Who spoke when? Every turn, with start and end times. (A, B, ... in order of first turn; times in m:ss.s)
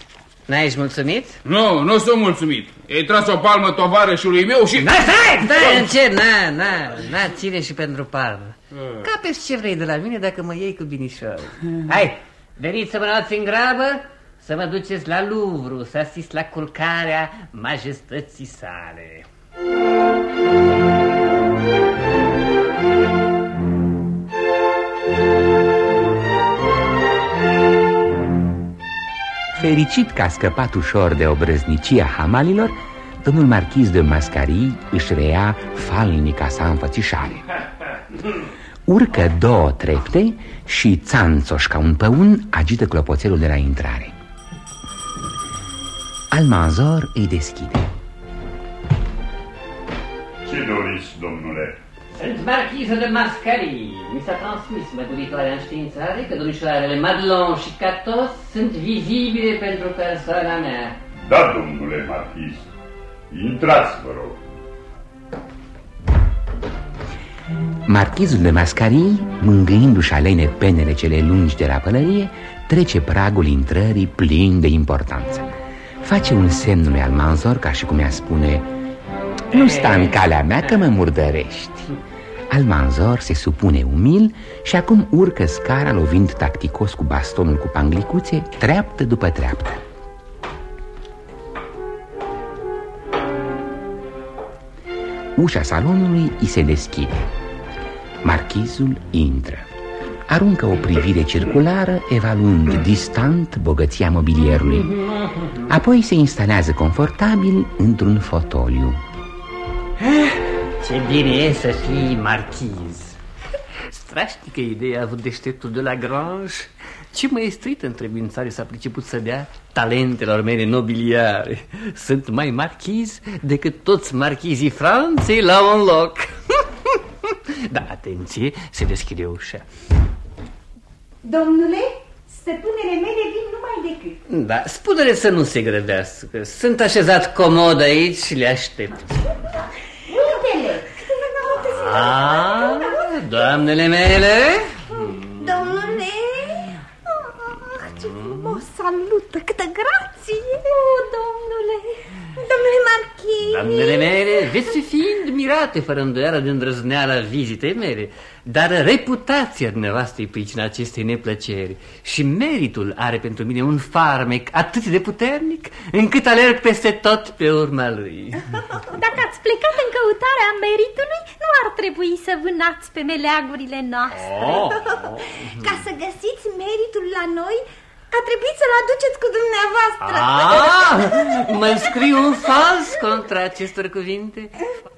0:00.5-0:01.4 A
0:01.4-0:05.9 B
0:04.8-0:19.3 A
0:29.5-0:37.4 C
0:38.9-0:44.1 C
0:46.3-0:47.9 C
0:50.4-0:51.8 D
0:52.1-1:01.0 A
1:01.3-1:02.7 D
1:03.3-1:04.4 D
1:07.9-1:15.5 C
1:16.0-1:18.7 C
1:19.5-1:21.9 C
1:19.5-1:20.8 A
1:22.5-1:29.8 C
1:35.4-1:37.3 C
1:38.2-1:39.7 C
1:40.3-1:45.0 C
1:45.7-1:49.0 C
1:50.0-1:53.2 A
1:53.9-2:09.6 A
2:11.2-2:14.1 E
2:14.3-2:19.2 A
2:20.1-2:20.9 E
2:21.1-2:23.1 F
2:21.6-2:25.5 A
2:25.0-2:34.7 F
2:28.0-2:28.6 A
2:33.5-2:48.4 A
2:48.9-2:54.5 G
2:54.2-2:55.8 A
2:54.4-3:01.9 F
3:00.0-3:04.6 A